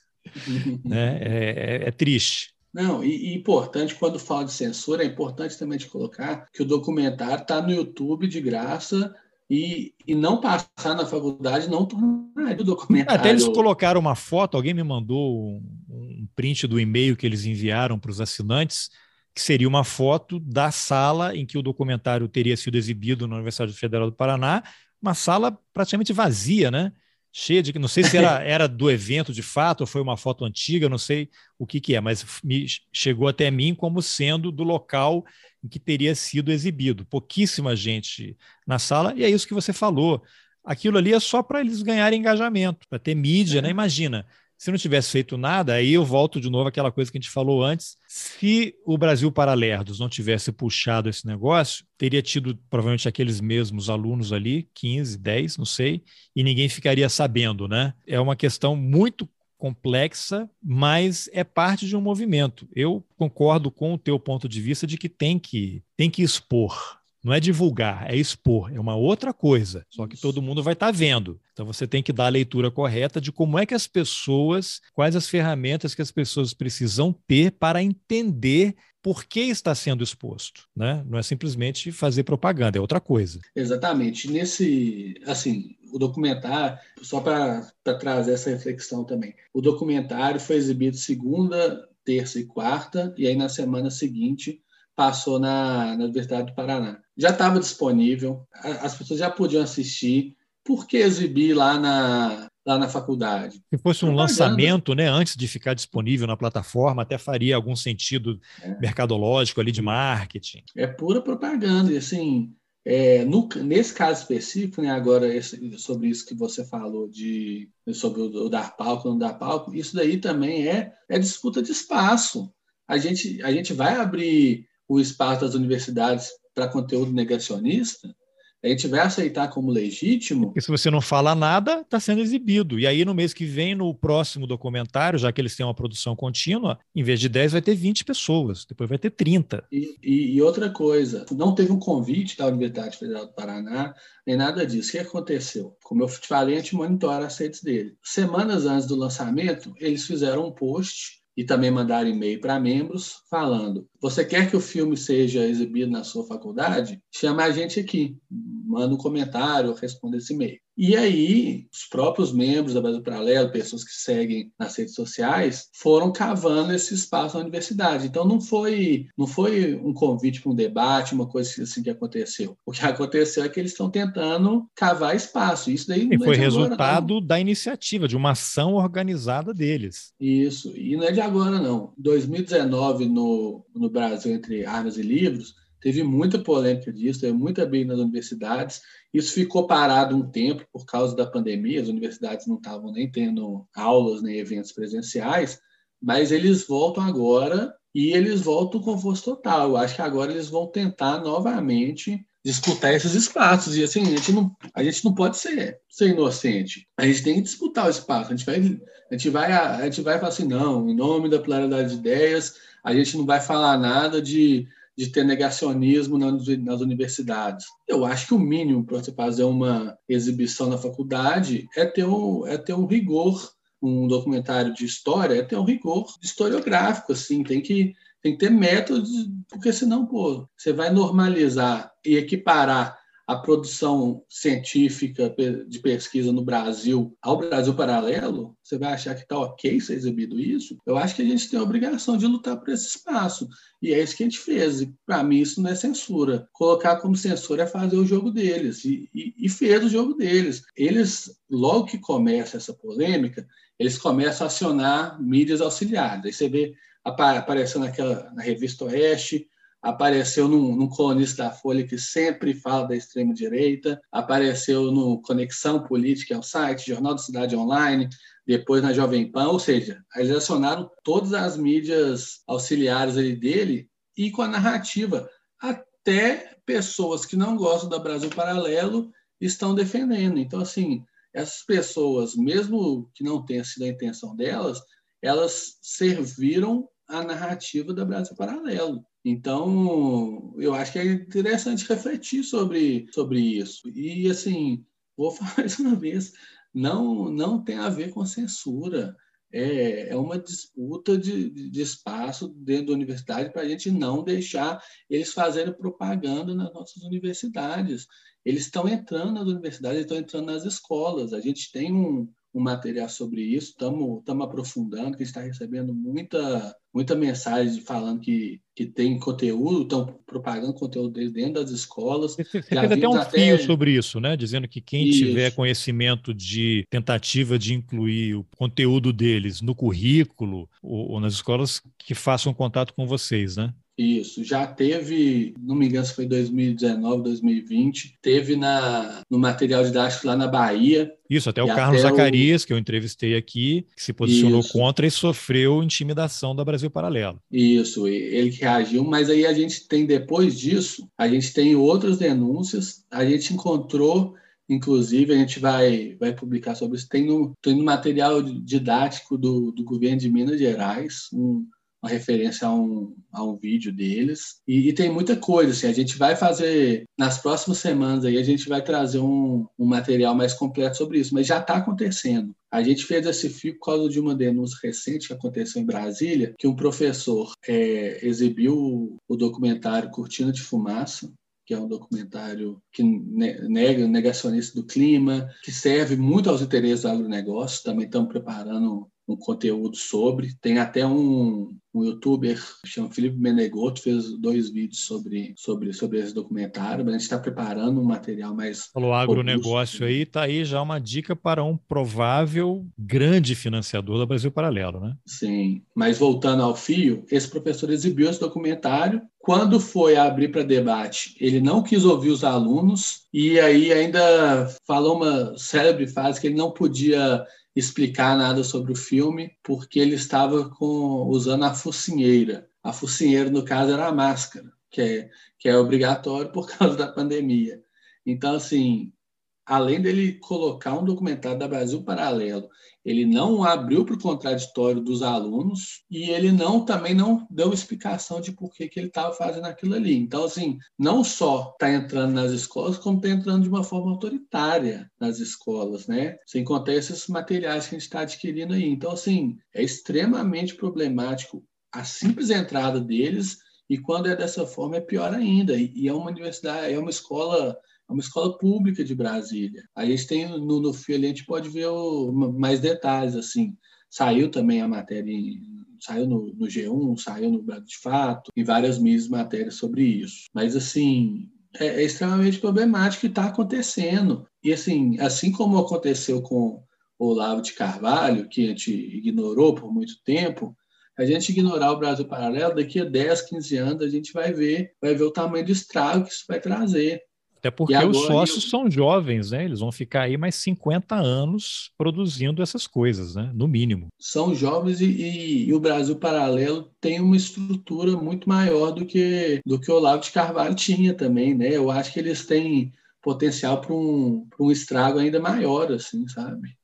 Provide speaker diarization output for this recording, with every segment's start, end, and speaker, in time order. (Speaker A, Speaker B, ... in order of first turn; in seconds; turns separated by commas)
Speaker A: 0.4-1.2, Speaker B: 0.9-2.5, Speaker A: 2.7-13.6, Speaker B: 13.1-83.4, Speaker A: 28.0-28.3, Speaker A: 43.5-43.8, Speaker A: 70.0-70.3, Speaker A: 83.5-104.8, Speaker B: 103.7-110.6, Speaker A: 108.6-108.9, Speaker A: 110.8-130.5, Speaker B: 130.5-139.7, Speaker A: 139.7-177.1, Speaker B: 176.1-180.1, Speaker A: 180.2-323.7, Speaker B: 322.4-333.8, Speaker A: 325.0-325.5, Speaker A: 334.0-342.5, Speaker B: 341.3-347.4, Speaker A: 344.2-344.9, Speaker A: 347.5-400.2, Speaker B: 398.9-405.2, Speaker A: 405.3-429.1, Speaker A: 429.7-487.2, Speaker B: 487.6-494.1, Speaker A: 487.9-488.7, Speaker A: 494.2-506.7